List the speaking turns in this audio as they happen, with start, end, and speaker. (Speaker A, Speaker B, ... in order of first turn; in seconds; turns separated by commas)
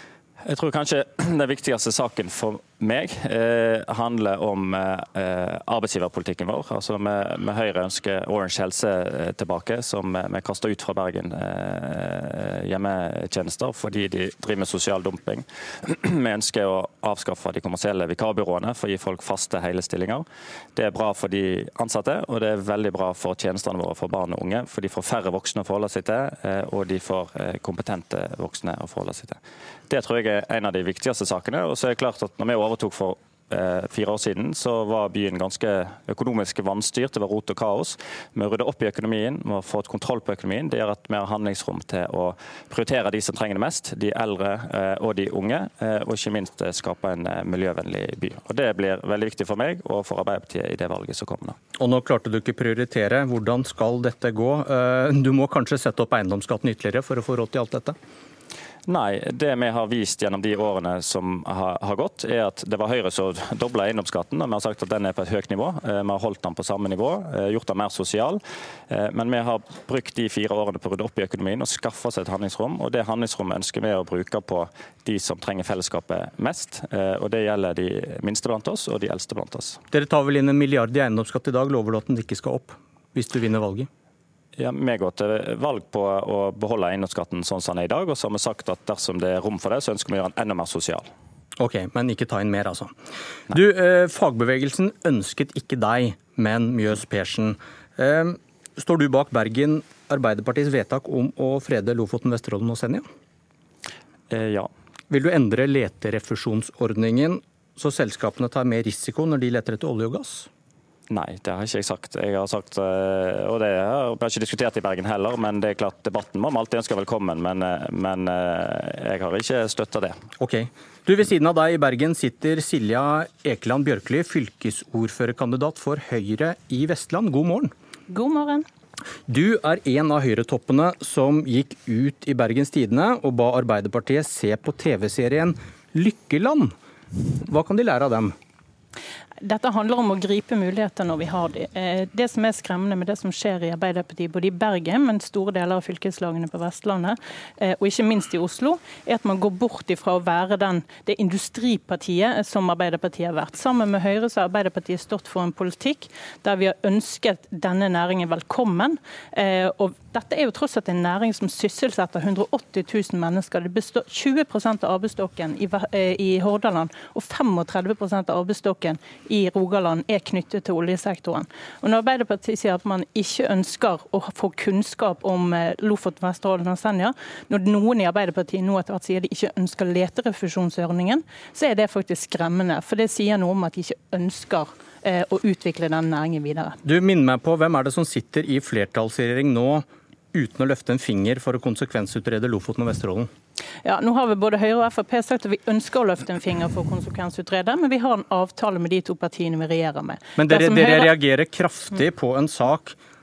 Speaker A: 0.4-51.6, Speaker B: 51.8-58.0, Speaker A: 58.9-79.8, Speaker B: 79.9-83.9, Speaker A: 84.5-91.1, Speaker B: 91.6-92.9, Speaker B: 93.5-103.0, Speaker A: 104.3-104.7, Speaker B: 105.1-110.5, Speaker A: 111.1-120.2, Speaker B: 120.4-127.7, Speaker C: 128.1-128.7, Speaker B: 129.3-136.7, Speaker B: 137.4-138.3, Speaker C: 139.4-186.8, Speaker B: 186.8-193.3, Speaker C: 193.8-201.1, Speaker B: 200.3-203.0